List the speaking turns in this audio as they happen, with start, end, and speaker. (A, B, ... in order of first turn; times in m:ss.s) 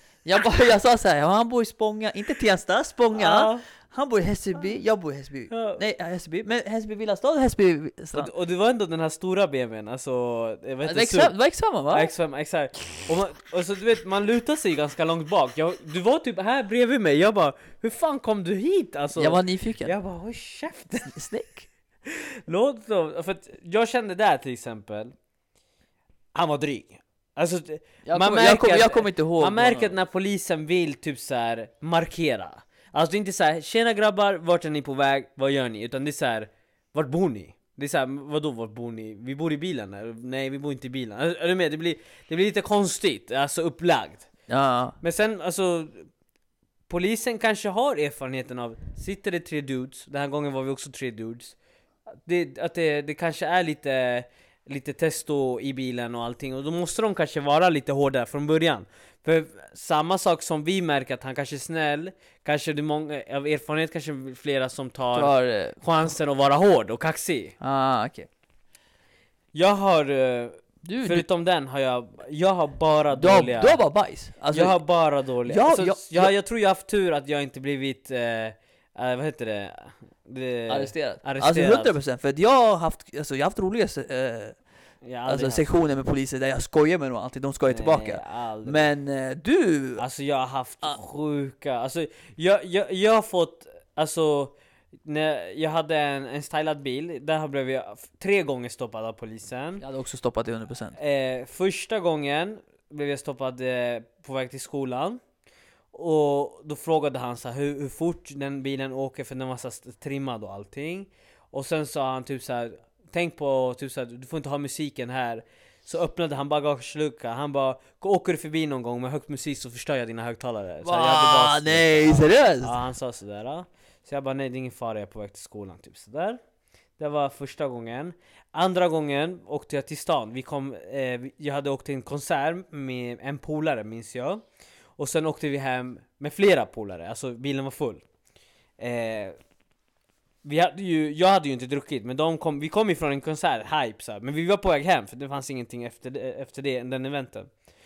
0:00.2-0:08.3 A
0:03.1-0:03.6 B
0:05.5-0:05.8 B
0:08.1-0:11.4 B
0:10.8-0:12.1 A
0:11.9-0:21.2 B
0:19.2-0:19.9 A
0:21.1-0:21.7 A
0:22.1-0:25.1 B
0:26.4-0:44.3 B
0:28.0-0:29.9 A
0:44.5-0:45.0 A
0:45.0-0:46.1 B
0:46.9-0:51.6 B
0:52.1-1:07.6 B
1:05.1-1:06.1 A
1:07.6-1:08.3 A
1:09.5-1:13.8 B
1:10.8-1:11.3 A
1:13.1-1:14.8 A
1:14.5-1:22.0 B
1:15.5-1:16.3 A
1:20.7-1:24.6 A
1:25.0-1:25.7 B
1:25.2-1:30.0 A
1:27.7-1:28.9 B
1:30.0-1:39.8 B
1:39.8-1:41.0 A
1:40.9-1:45.2 B
1:45.9-2:06.4 B
2:00.8-2:02.7 A
2:07.0-2:14.4 B
2:15.0-2:18.0 B
2:18.8-2:19.4 B
2:20.4-2:27.5 B